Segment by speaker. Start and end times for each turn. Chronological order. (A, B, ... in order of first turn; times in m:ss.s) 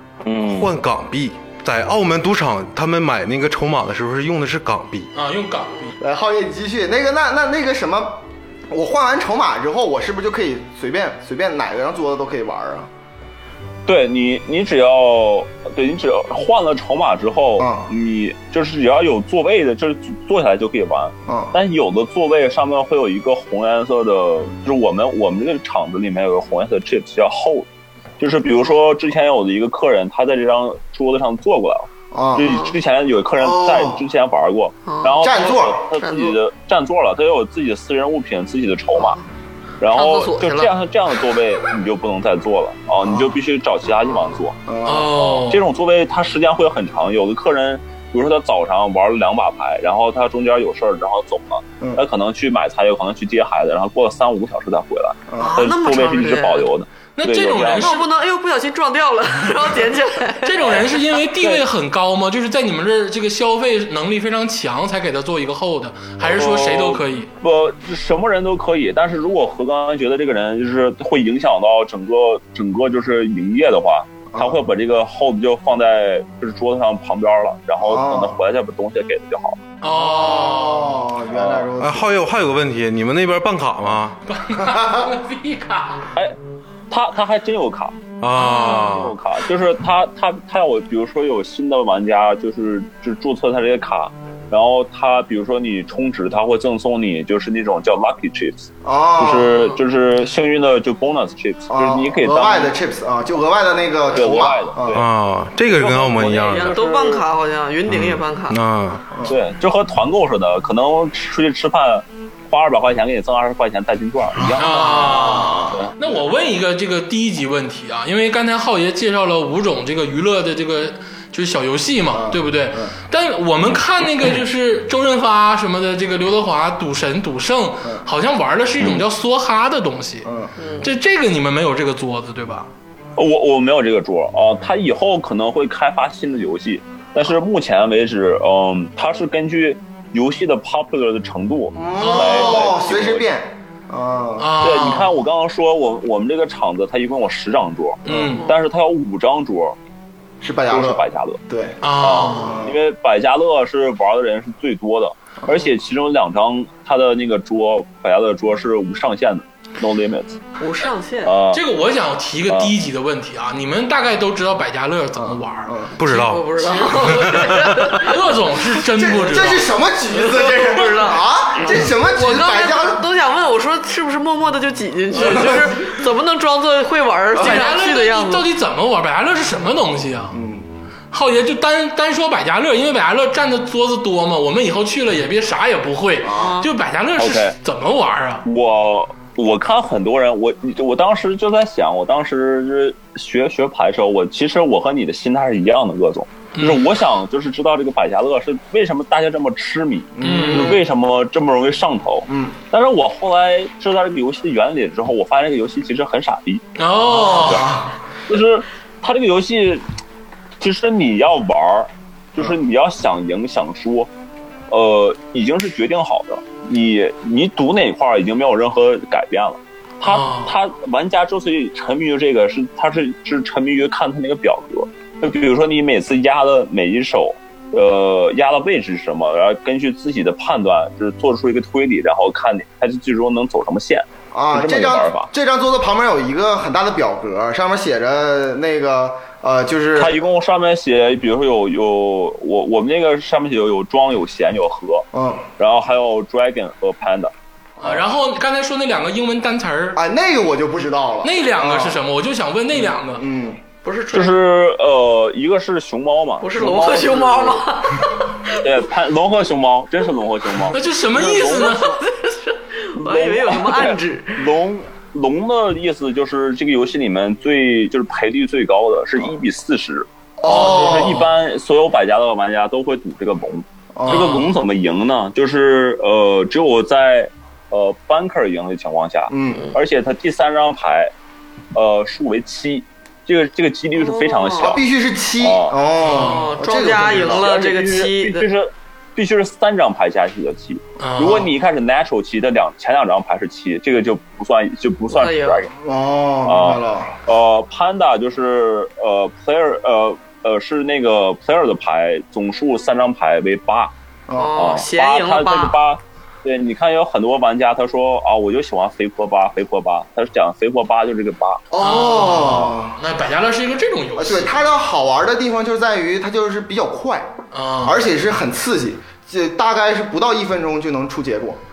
0:00.2-0:00.7 A
0:00.4-0:05.1 B
0:05.1-0:06.0 C
0:06.0-0:12.9 D
0:13.8-0:27.7 A
0:17.6-0:17.9 D
0:21.3-0:21.5 D
0:28.2-0:39.2 A
0:32.1-0:32.5 D
0:32.4-0:32.7 E
0:33.4-0:34.0 D
0:34.9-0:35.3 E
0:35.2-0:35.9 D
0:36.0-0:36.4 E
0:39.0-0:39.2 E
0:39.8-0:58.0 A
0:39.8-0:40.7 E
0:43.0-0:43.3 D
0:44.6-0:45.1 D
0:44.8-0:45.6 C
0:55.3-0:55.6 D
0:55.4-0:56.7 E
0:57.2-0:58.1 C
0:57.7-1:00.8 E
1:00.4-1:07.3 C
1:06.2-1:19.6 A
1:17.8-1:18.4 D
1:19.8-1:21.1 C
1:19.9-1:22.1 D
1:21.3-1:21.7 A
1:21.8-1:24.2 B
1:24.3-1:26.1 C
1:24.7-1:25.1 D
1:26.9-1:28.0 A
1:28.2-1:29.2 B
1:28.4-1:28.9 C
1:28.6-1:42.7 A
1:38.8-1:39.7 D
1:41.7-1:45.0 D
1:44.1-1:45.0 A
1:44.9-1:46.8 B
1:45.7-1:47.2 A
1:46.4-1:48.6 E
1:47.9-1:49.0 B
1:49.2-1:55.9 A
1:54.5-1:55.8 D
1:54.6-2:10.3 C
2:02.1-2:02.9 D
2:10.2-2:10.5 D
2:10.6-2:10.9 E
2:10.8-2:12.7 C
2:13.2-2:23.3 A
2:21.7-2:24.6 D
2:22.0-2:22.8 C
2:24.4-2:25.1 C
2:24.6-2:29.8 A
2:28.0-2:28.5 C
2:28.1-2:28.4 D
2:30.4-2:32.8 D
2:30.7-2:31.4 A
2:31.8-2:32.6 C
2:32.0-2:40.4 A
2:40.6-2:41.4 E
2:41.2-2:41.6 A
2:41.5-2:49.7 C
2:42.5-2:42.7 A
2:45.2-2:46.0 D
2:46.0-2:48.0 B
2:46.1-2:48.2 E
2:48.8-2:53.0 D
2:50.1-2:58.5 E
2:55.2-2:55.6 D
2:57.3-3:00.4 C
3:00.3-3:00.6 D
3:01.1-3:08.4 C
3:06.2-3:06.6 D
3:06.3-3:06.7 E
3:07.2-3:07.6 A
3:08.4-3:26.7 A
3:16.5-3:16.9 C
3:20.2-3:20.8 D
3:20.2-3:20.8 C
3:22.3-3:22.5 D
3:26.8-3:27.8 C
3:27.1-3:27.9 D
3:27.2-3:29.8 A
3:30.6-3:34.1 A
3:34.7-3:55.3 A
3:40.0-3:40.5 C
3:54.3-4:00.2 D
3:59.9-4:05.0 A
4:05.1-4:05.4 D
4:05.6-4:07.3 A
4:07.8-4:10.0 C
4:10.0-4:12.0 D
4:11.2-4:13.2 C
4:13.1-4:13.6 D
4:13.8-4:14.4 E
4:14.1-4:17.7 A
4:16.4-4:18.6 E
4:18.5-4:21.9 A
4:20.7-4:22.0 C
4:21.2-4:24.5 E
4:23.0-4:41.1 A
4:30.4-4:31.3 D
4:30.4-4:31.3 C
4:33.9-4:34.5 D
4:34.1-4:34.5 C
4:39.3-4:39.7 D
4:41.7-4:44.8 A
4:44.0-4:44.8 E
4:44.6-4:47.6 D
4:45.4-4:45.8 A
4:46.0-4:46.5 C
4:46.1-4:48.5 E
4:47.0-4:55.7 A
4:51.0-4:51.5 C
4:55.1-4:55.7 E
4:55.7-4:57.1 D
4:56.4-5:03.9 A
5:04.3-5:04.6 D
5:04.3-5:05.8 E
5:04.5-5:11.6 A
5:11.7-5:13.0 D
5:11.8-5:14.6 C
5:14.2-5:17.3 D
5:17.5-5:18.0 C
5:17.8-5:21.6 D